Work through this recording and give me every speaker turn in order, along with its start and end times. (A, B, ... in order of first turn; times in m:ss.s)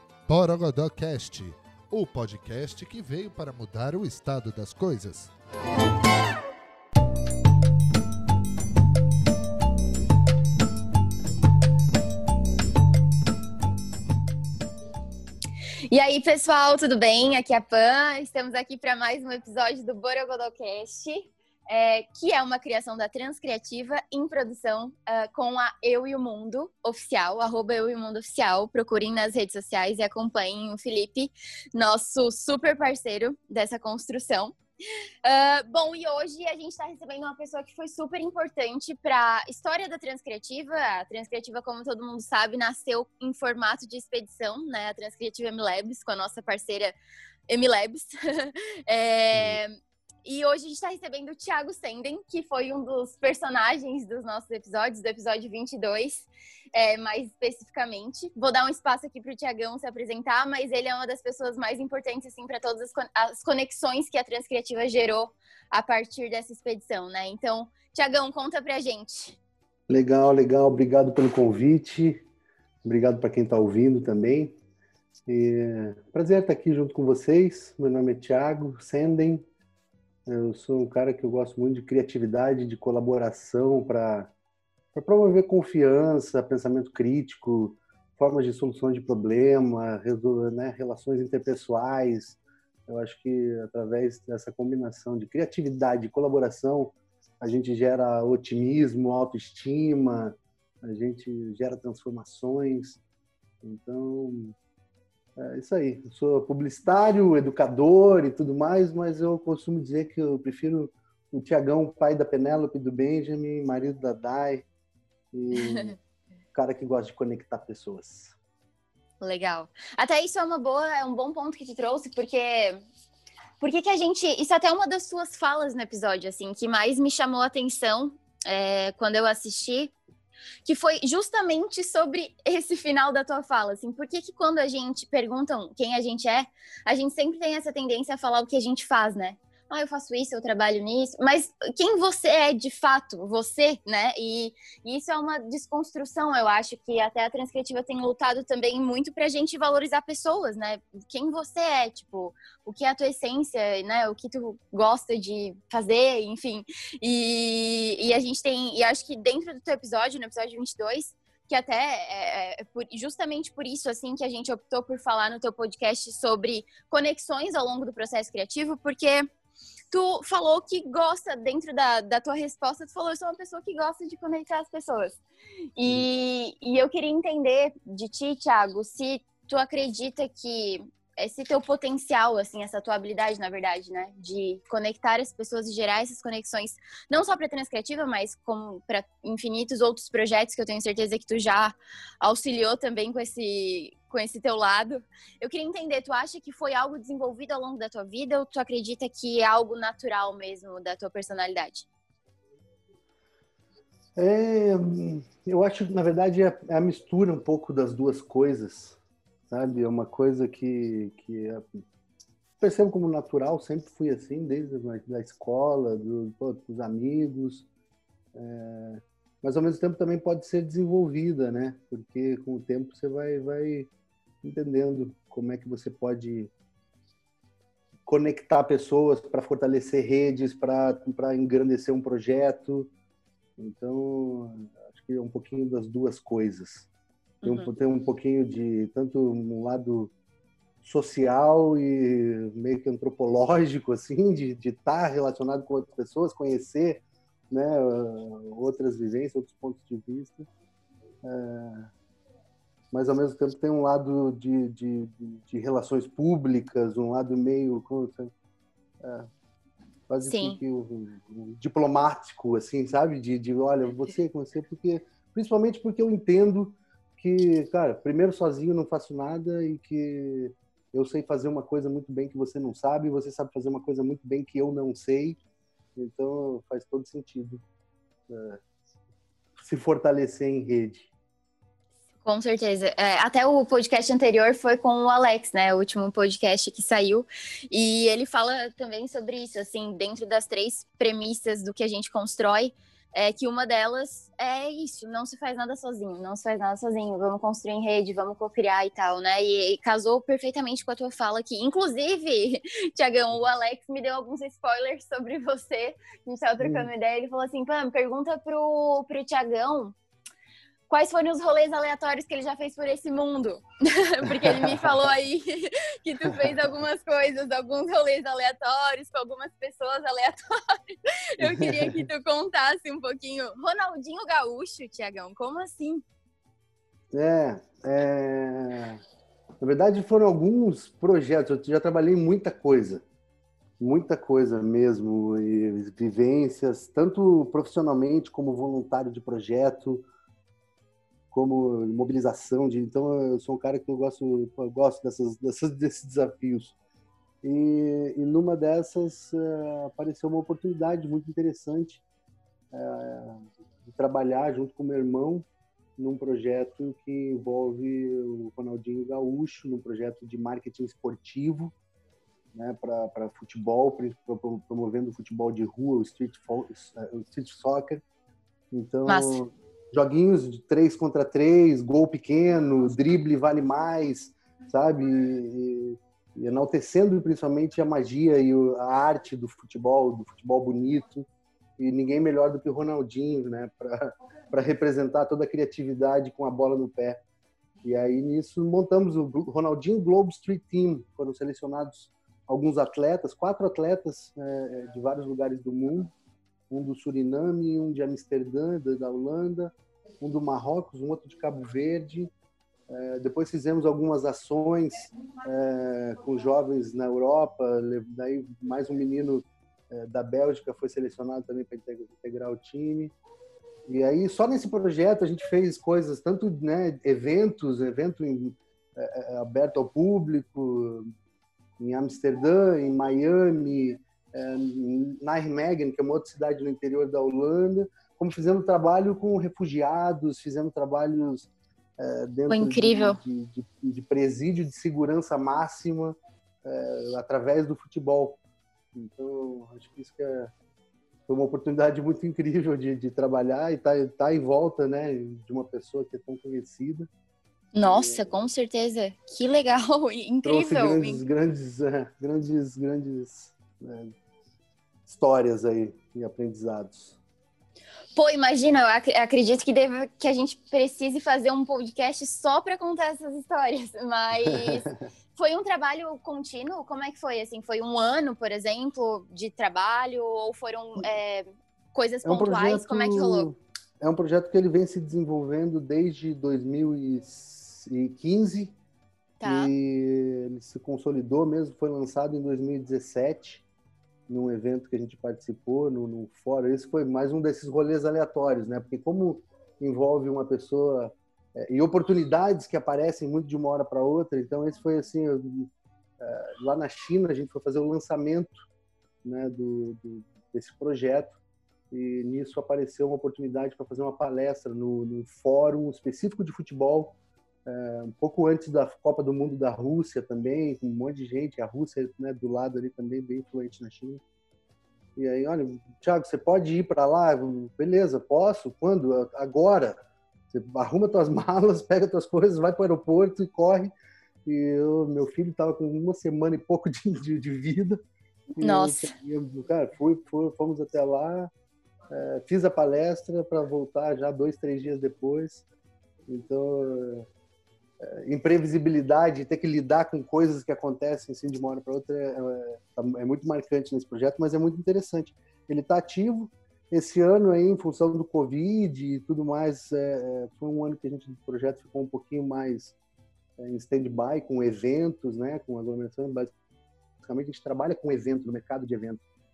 0:00.3-0:05.3 A
0:15.9-0:34.6 B
0:35.2-0:47.0 B
0:47.5-1:09.4 B
0:49.3-0:49.6 C
1:09.9-1:12.2 C
1:12.8-1:14.6 C
1:15.3-1:19.5 C
1:20.3-1:24.3 C
1:24.9-1:43.0 C
1:43.6-1:44.6 C
1:45.4-1:54.7 C
1:55.3-1:56.0 C
1:55.6-1:56.0 B
1:56.5-1:58.3 C
1:59.2-2:02.8 B
2:03.6-2:09.9 B
2:10.6-2:49.3 B
2:49.9-2:55.2 B
2:55.8-3:21.9 B
3:24.2-3:29.0 C
3:29.5-3:31.8 C
3:32.6-3:37.7 C
3:38.3-3:43.9 C
3:44.4-3:46.5 C
3:48.1-3:52.9 C
3:53.6-3:56.9 C
3:57.4-3:57.7 B
3:57.4-4:00.1 C
4:00.8-4:10.5 C
4:11.2-4:11.9 C
4:12.9-4:18.3 C
4:19.0-4:19.3 C
4:20.1-4:35.4 C
4:20.3-4:20.6 B
4:36.0-4:37.6 C
4:38.3-4:38.6 C
4:39.6-4:41.1 C
4:42.2-5:10.0 B
5:06.6-5:06.9 C
5:10.9-5:26.0 B
5:14.2-5:15.0 C
5:16.3-5:16.6 C
5:21.4-5:22.0 C
5:27.1-5:29.0 C
5:29.6-5:33.0 C
5:33.8-5:40.1 C
5:41.3-5:46.8 C
5:47.4-5:52.0 C
5:52.7-5:55.5 C
5:56.0-6:01.7 C
6:02.5-6:08.0 C
6:08.7-6:21.3 C
6:09.1-6:09.4 B
6:21.8-6:27.2 C
6:27.8-6:36.1 C
6:36.7-6:42.3 C
6:42.9-6:53.2 C
6:53.9-7:01.1 C
7:01.8-7:18.4 C
7:12.5-7:13.2 B
7:19.0-7:20.5 C
7:21.3-7:27.1 C
7:27.7-7:31.2 B
7:27.8-7:28.3 C
7:30.4-7:34.1 C
7:35.1-7:37.2 C
7:38.2-7:53.5 B
7:44.4-7:45.1 C
7:52.2-7:58.8 C
7:59.4-7:59.7 B
7:59.4-8:03.6 C
8:04.3-8:18.6 C
8:19.2-8:21.4 C
8:21.9-8:34.2 C
8:35.2-8:40.0 C
8:40.5-8:43.9 C
8:44.4-8:48.0 C
8:48.6-8:51.5 C
8:48.6-8:49.1 B
8:52.1-8:55.6 C
8:56.3-8:57.3 C
8:58.0-9:13.0 C
9:13.6-9:16.5 C
9:17.2-9:19.2 C